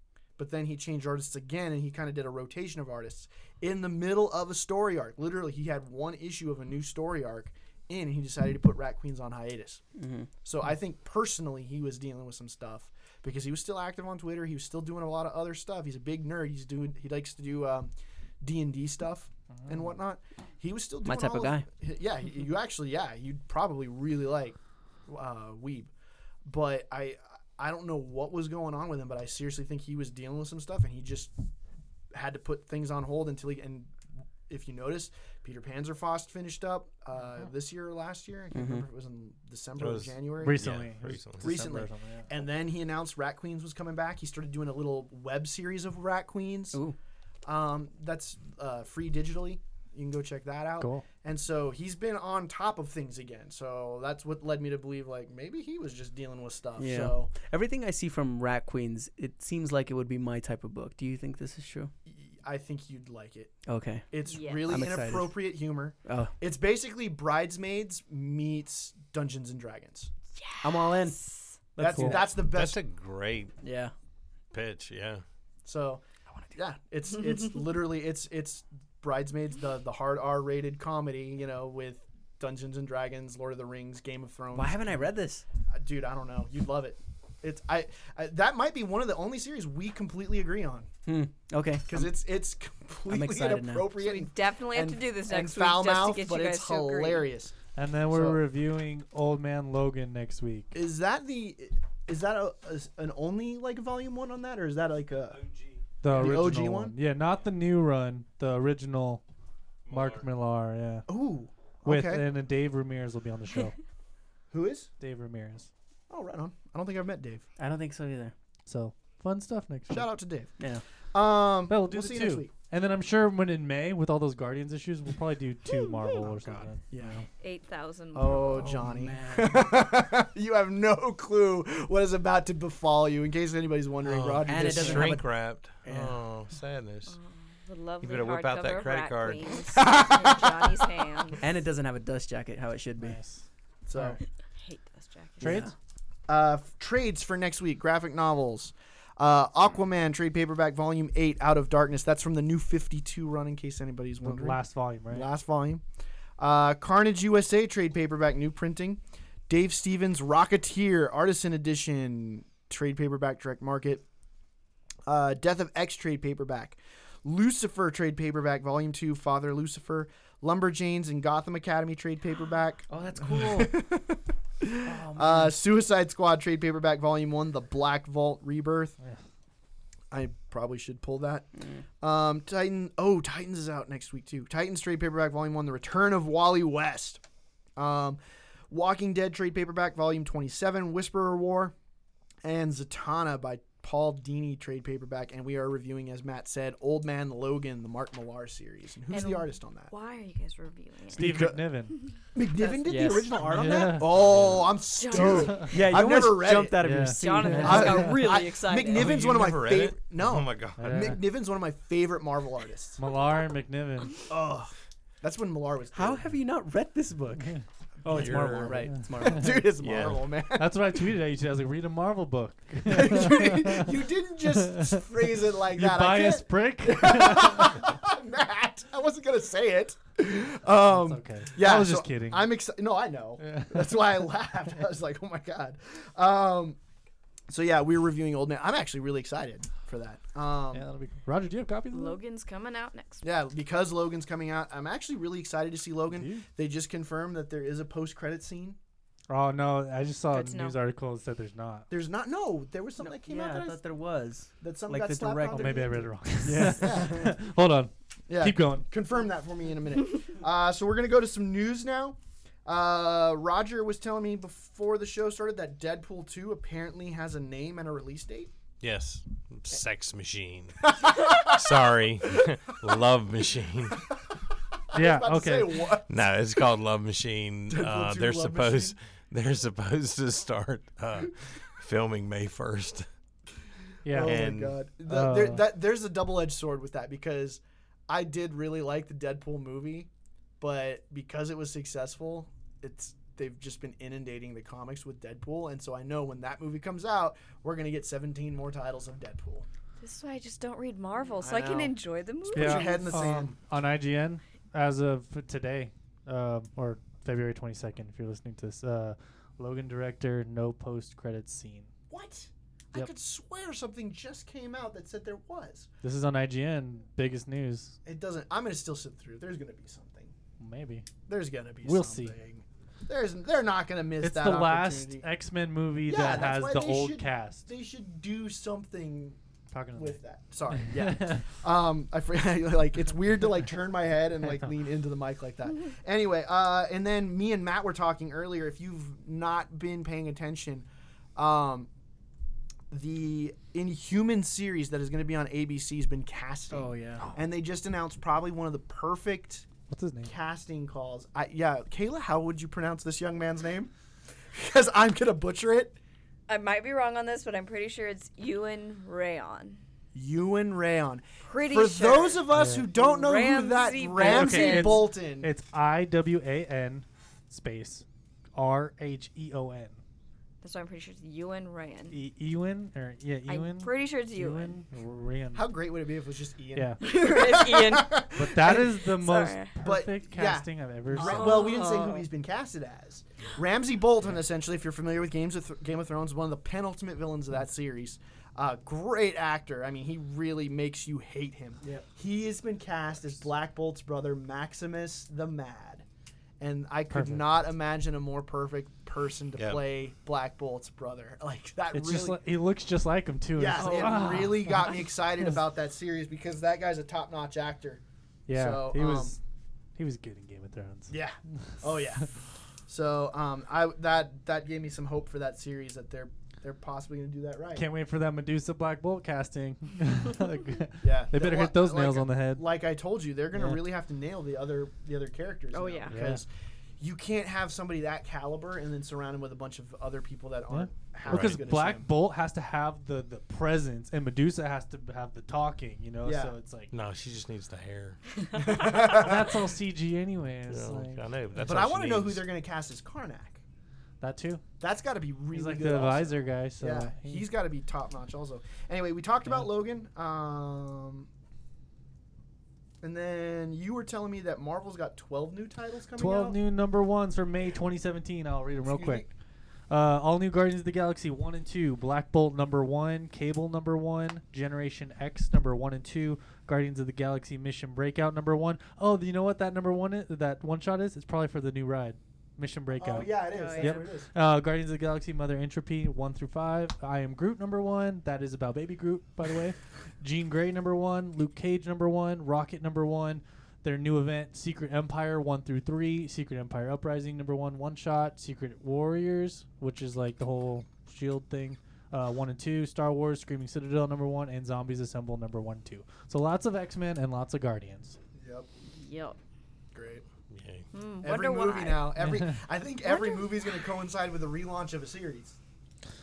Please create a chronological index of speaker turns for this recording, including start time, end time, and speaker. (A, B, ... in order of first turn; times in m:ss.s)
0:00.4-0:09.8 A
0:10.0-0:10.3 B
0:10.4-0:25.9 A
0:19.6-0:19.9 C
0:21.0-0:21.7 B
0:26.4-0:31.3 A
0:32.1-0:40.7 A
0:38.5-0:38.8 B
0:39.8-0:41.6 D
0:40.4-0:42.3 C
0:41.4-0:46.8 A
0:47.4-0:57.3 A
0:50.8-0:51.1 C
0:56.8-1:01.9 B
1:02.1-1:03.6 A
1:03.7-1:04.1 B
1:04.1-1:10.1 A
1:04.2-1:04.7 E
1:04.7-1:05.4 B
1:06.1-1:06.3 B
1:10.4-1:11.6 E
1:10.6-1:11.2 B
1:11.8-1:12.3 B
1:11.8-1:12.8 A
1:11.9-1:12.2 C
1:12.5-1:13.6 D
1:13.6-1:13.9 B
1:14.5-1:15.2 D
1:15.6-1:16.0 A
1:16.6-1:24.9 A
1:24.5-1:25.4 B
1:25.7-1:30.9 A
1:31.1-1:32.1 B
1:31.9-1:37.6 A
1:33.1-1:33.9 B
1:34.0-1:37.3 E
1:37.8-1:40.7 C
1:38.1-1:38.4 A
1:40.7-1:45.4 A
1:45.3-1:45.9 D
1:46.0-1:49.2 C
1:46.0-1:47.0 A
1:49.9-1:50.3 D
1:49.9-1:51.1 C
1:51.1-1:52.2 A
1:51.8-1:53.8 C
1:54.5-1:54.9 A
1:55.0-1:55.7 C
1:56.1-1:57.4 A
1:57.6-1:58.3 B
1:58.7-2:00.1 C
1:59.9-2:00.5 A
2:01.1-2:02.5 A
2:01.7-2:07.2 C
2:06.2-2:07.2 A
2:07.4-2:08.8 E
2:08.1-2:15.3 A
2:08.6-2:09.7 B
2:14.0-2:17.2 D
2:14.5-2:16.2 B
2:17.1-2:21.4 E
2:18.0-2:19.6 D
2:19.7-2:20.9 A
2:21.4-2:23.2 B
2:23.0-2:24.2 C
2:23.9-2:24.2 A
2:24.6-2:25.5 E
2:25.4-2:25.7 C
2:25.4-2:25.7 B
2:26.3-2:35.8 A
2:34.2-2:35.3 C
2:36.4-2:44.0 A
2:45.1-2:59.0 A
2:52.9-2:53.8 B
2:54.8-2:55.6 B
3:00.1-3:01.5 A
3:02.0-3:07.2 A
3:07.8-3:08.2 A
3:08.7-3:11.8 A
3:12.4-3:19.9 A
3:19.1-3:21.4 E
3:21.1-3:22.0 C
3:21.2-3:21.6 A
3:22.3-3:26.8 A
3:22.8-3:23.4 B
3:23.4-3:24.2 C
3:24.1-3:24.7 D
3:24.9-3:25.7 E
3:25.4-3:25.7 C
3:25.5-3:28.2 B
3:26.8-3:28.1 C
3:27.2-3:29.4 E
3:27.6-3:33.0 A
3:28.9-3:31.0 D
3:30.8-3:31.2 C
3:33.0-3:34.2 C
3:34.3-3:36.2 A
3:35.9-3:39.8 B
3:38.1-3:40.9 A
3:38.1-3:38.9 D
3:38.9-3:39.6 C
3:39.8-3:40.3 D
3:40.5-3:43.9 C
3:42.8-3:56.8 A
3:44.4-3:45.1 C
3:45.7-3:47.9 C
3:50.9-3:52.5 C
3:53.4-3:54.0 C
3:57.5-4:00.8 A
4:00.7-4:02.2 C
4:01.9-4:03.3 E
4:03.2-4:08.8 A
4:06.1-4:06.4 C
4:09.3-4:11.9 C
4:10.3-4:10.8 E
4:11.9-4:13.8 A
4:13.0-4:16.8 B
4:14.6-4:17.4 A
4:15.5-4:18.9 C
4:18.3-4:28.5 A
4:28.8-4:34.0 D
4:30.8-4:31.8 A
4:34.9-4:36.1 A
4:34.9-4:35.9 C
4:36.1-4:43.1 D
4:37.7-4:39.0 A
4:44.0-4:44.5 C
4:44.1-4:59.7 A
4:44.2-4:44.8 D
4:45.0-4:45.6 C
5:00.0-5:03.4 E
5:01.4-5:02.0 A
5:02.5-5:03.5 A
5:02.5-5:11.9 C
5:12.1-5:15.9 A
5:16.0-5:18.0 C
5:18.0-5:20.3 A
5:20.6-5:21.1 C
5:21.3-5:25.3 A
5:21.8-5:22.4 C
5:24.2-5:27.7 C
5:26.1-5:29.4 A
5:29.7-5:30.2 C
5:30.0-5:41.9 A
5:30.7-5:31.4 C
5:42.9-5:49.7 A
5:46.7-5:47.2 B
5:49.9-5:50.3 C
5:50.2-5:53.9 A
5:54.5-5:56.0 A
5:56.5-5:59.8 E
6:00.2-6:05.5 A
6:01.4-6:05.1 E
6:02.5-6:02.9 C
6:04.2-6:10.0 C
6:10.6-6:12.2 E
6:12.1-6:15.7 C
6:13.5-6:14.8 E
6:15.5-6:19.0 A
6:16.8-6:17.0 C
6:17.0-6:18.3 E
6:18.3-6:21.6 C
6:19.0-6:19.7 E
6:19.8-6:36.0 A
6:21.1-6:22.3 E
6:31.8-6:32.1 B
6:36.6-6:42.4 A
6:37.1-6:37.4 C
6:39.6-6:39.8 D
6:41.9-6:44.8 C
6:43.6-6:48.0 A
6:43.8-6:44.5 E
6:48.5-6:49.4 C
6:48.5-6:49.4 A
6:50.0-6:52.3 C
6:51.1-6:52.3 A
6:52.9-6:57.9 A
6:57.8-7:02.7 C
7:01.0-7:06.5 A
7:03.6-7:03.8 C
7:05.7-7:06.2 E
7:06.1-7:06.4 C
7:07.0-7:12.1 A
7:10.7-7:16.9 C
7:11.3-7:11.7 D
7:16.2-7:16.6 A
7:16.9-7:18.2 D
7:18.5-7:19.2 E
7:18.6-7:19.5 A
7:18.8-7:21.6 C
7:20.7-7:22.5 D
7:21.6-7:23.6 A
7:24.2-7:24.6 C
7:24.8-7:31.3 A
7:25.5-7:27.4 C
7:33.0-7:36.6 A
7:36.2-7:39.3 C
7:38.8-7:39.3 A
7:39.9-8:18.2 C
7:53.0-7:54.3 A
7:53.5-7:54.0 E
8:18.4-8:18.7 A
8:18.9-8:19.4 E
8:19.9-8:20.2 A
8:20.5-8:20.9 D
8:20.9-8:22.1 E
8:21.2-8:25.6 A
8:22.2-8:22.6 C
8:23.0-8:23.6 E